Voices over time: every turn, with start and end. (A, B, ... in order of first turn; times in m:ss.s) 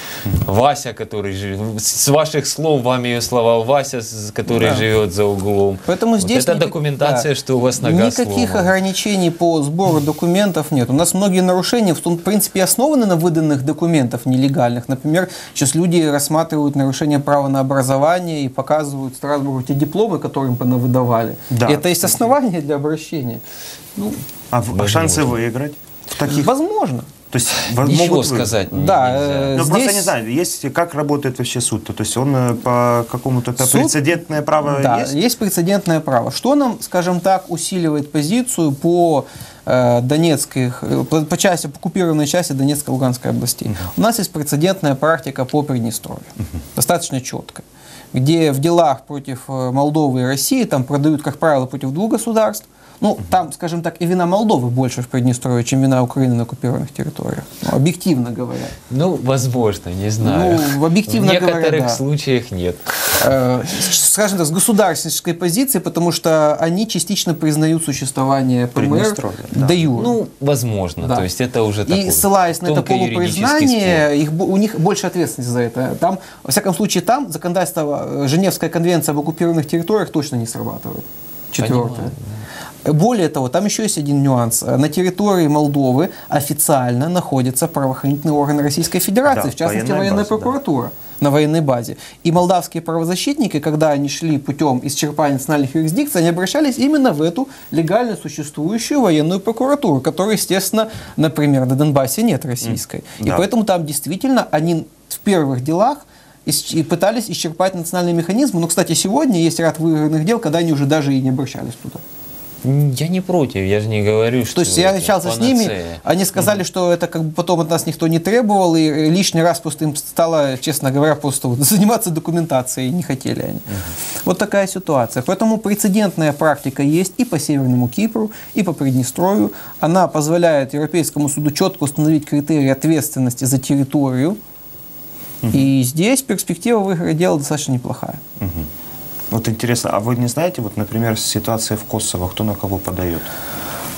0:00.4-0:08.7 A
0:04.5-0:04.8 B
0:05.9-0:07.3 B
0:07.8-0:23.4 B
0:21.5-0:22.2 C
0:24.0-0:24.2 B
0:24.5-0:26.5 C
0:24.7-0:25.4 A
0:26.2-0:27.1 B
0:27.3-0:28.5 C
0:27.8-0:29.6 A
0:28.7-0:30.1 B
0:29.5-0:35.2 C
0:33.6-0:34.0 B
0:34.6-0:58.7 B
0:58.9-1:03.2 A
1:00.2-1:02.0 B
1:03.2-1:10.2 B
1:08.8-1:09.8 C
1:09.9-1:14.1 A
1:11.0-1:11.2 B
1:11.9-1:22.1 B
1:21.6-1:22.4 A
1:22.8-1:52.0 B
1:29.3-1:30.6 C
1:42.6-1:43.5 C
1:52.6-1:56.0 A
1:54.5-2:03.7 B
2:04.2-2:14.4 B
2:15.4-2:15.7 C
2:15.5-2:18.2 B
2:18.4-2:18.7 C
2:19.3-2:23.3 C